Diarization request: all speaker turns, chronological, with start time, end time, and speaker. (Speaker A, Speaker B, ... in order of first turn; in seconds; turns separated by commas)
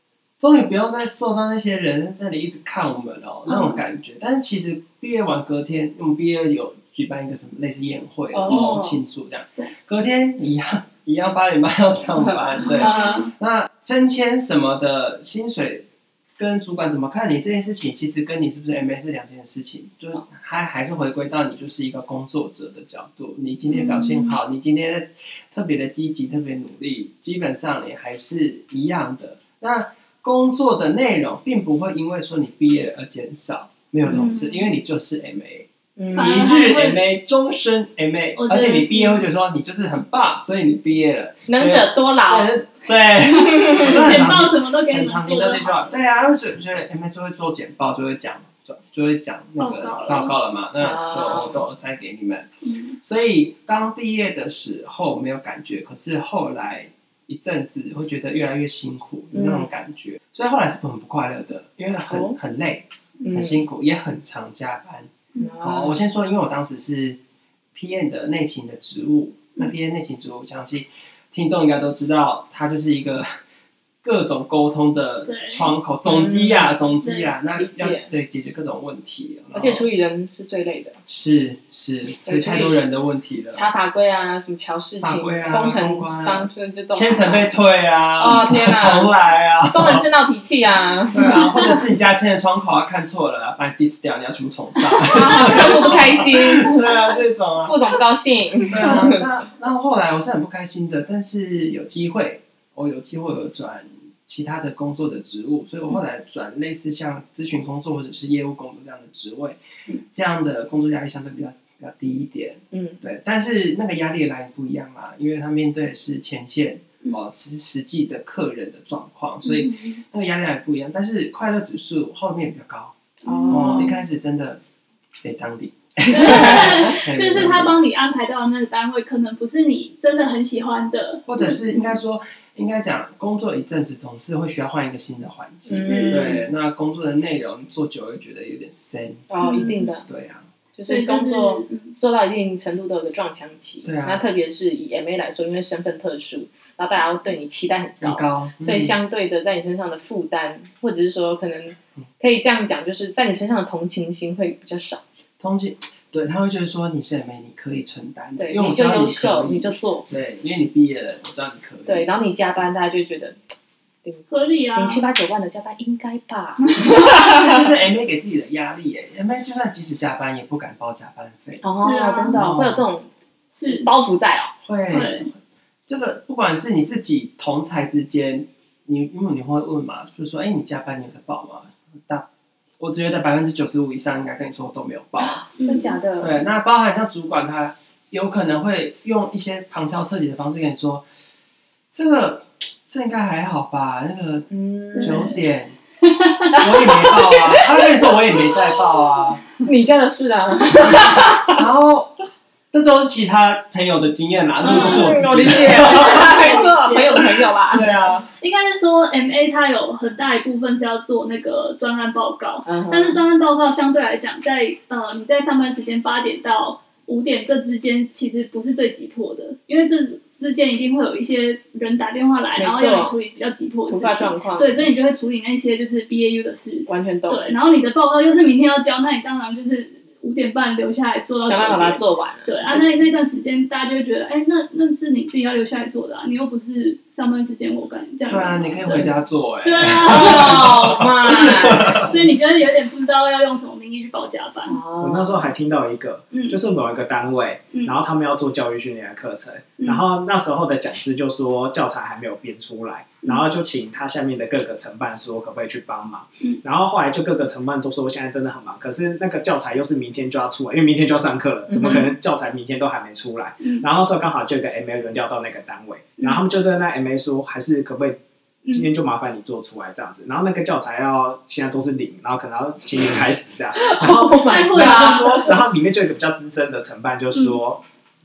Speaker A: 0.4-15.8, Speaker B: 3.5-3.8, Speaker C: 8.3-9.0, Speaker B: 8.5-8.8, Speaker B: 12.6-13.3, Speaker C: 12.8-13.2, Speaker A: 16.4-52.5, Speaker B: 23.7-24.4, Speaker B: 34.0-34.7, Speaker C: 36.0-36.5, Speaker B: 36.1-37.0, Speaker B: 38.4-39.2, Speaker C: 41.5-42.5, Speaker C: 43.2-44.0, Speaker B: 43.5-45.9, Speaker B: 49.6-50.3, Speaker C: 50.8-51.6, Speaker B: 52.6-53.0, Speaker A: 53.0-67.2, Speaker C: 59.3-59.7, Speaker C: 62.1-62.4, Speaker C: 63.2-63.6, Speaker C: 65.4-66.0, Speaker A: 67.7-73.3, Speaker A: 74.0-79.8, Speaker B: 75.2-75.7, Speaker C: 76.0-76.8, Speaker B: 77.0-77.3, Speaker C: 77.5-78.1, Speaker C: 79.5-81.0, Speaker A: 81.0-83.6, Speaker C: 82.2-82.8, Speaker C: 83.5-87.5, Speaker A: 85.0-90.0, Speaker C: 88.2-89.1, Speaker C: 89.7-91.5, Speaker A: 91.1-97.8, Speaker C: 95.0-97.0, Speaker B: 95.3-96.0, Speaker C: 97.6-99.2, Speaker A: 98.7-122.9, Speaker C: 112.7-113.0, Speaker B: 119.4-120.0, Speaker C: 123.2-123.9, Speaker B: 123.2-124.0, Speaker A: 123.5-124.6, Speaker A: 125.2-127.8, Speaker B: 126.1-131.8, Speaker C: 126.2-126.8, Speaker A: 131.3-140.4, Speaker C: 135.7-136.4, Speaker B: 135.7-136.4, Speaker C: 139.3-140.0, Speaker B: 139.4-139.9, Speaker C: 140.8-155.0, Speaker B: 140.9-141.9, Speaker A: 143.8-144.2, Speaker A: 148.0-149.0, Speaker A: 155.4-162.1, Speaker C: 158.4-160.1, Speaker C: 161.8-163.4, Speaker C: 164.0-167.3, Speaker B: 164.3-165.0, Speaker B: 166.7-166.9, Speaker A: 166.8-171.6, Speaker C: 171.6-173.1, Speaker B: 171.8-172.4, Speaker A: 172.3-172.8, Speaker B: 173.5-173.8, Speaker C: 173.7-174.5, Speaker A: 174.6-175.3, Speaker B: 174.9-175.3, Speaker A: 175.9-182.2, Speaker A: 182.8-185.4, Speaker C: 185.2-186.4, Speaker B: 185.6-186.0, Speaker A: 186.2-191.0, Speaker A: 191.9-195.7, Speaker C: 194.5-195.3, Speaker B: 194.9-195.3, Speaker B: 196.0-196.5, Speaker C: 196.5-197.7, Speaker A: 196.6-199.4, Speaker C: 199.6-201.6, Speaker A: 200.8-202.1, Speaker A: 202.7-206.6, Speaker B: 204.6-207.2, Speaker C: 204.6-207.9, Speaker A: 207.2-208.3, Speaker B: 208.4-239.1, Speaker C: 212.7-213.2, Speaker C: 222.6-223.1, Speaker C: 223.9-224.9, Speaker C: 226.9-227.4, Speaker C: 231.4-233.0, Speaker A: 238.3-242.2, Speaker B: 239.6-240.9, Speaker C: 240.0-242.1, Speaker B: 241.7-244.8, Speaker C: 244.7-245.5, Speaker D: 245.0-268.2, Speaker B: 246.3-246.6, Speaker B: 249.8-250.0, Speaker C: 261.7-262.1, Speaker D: 268.7-277.8, Speaker C: 273.7-275.5, Speaker B: 274.4-275.5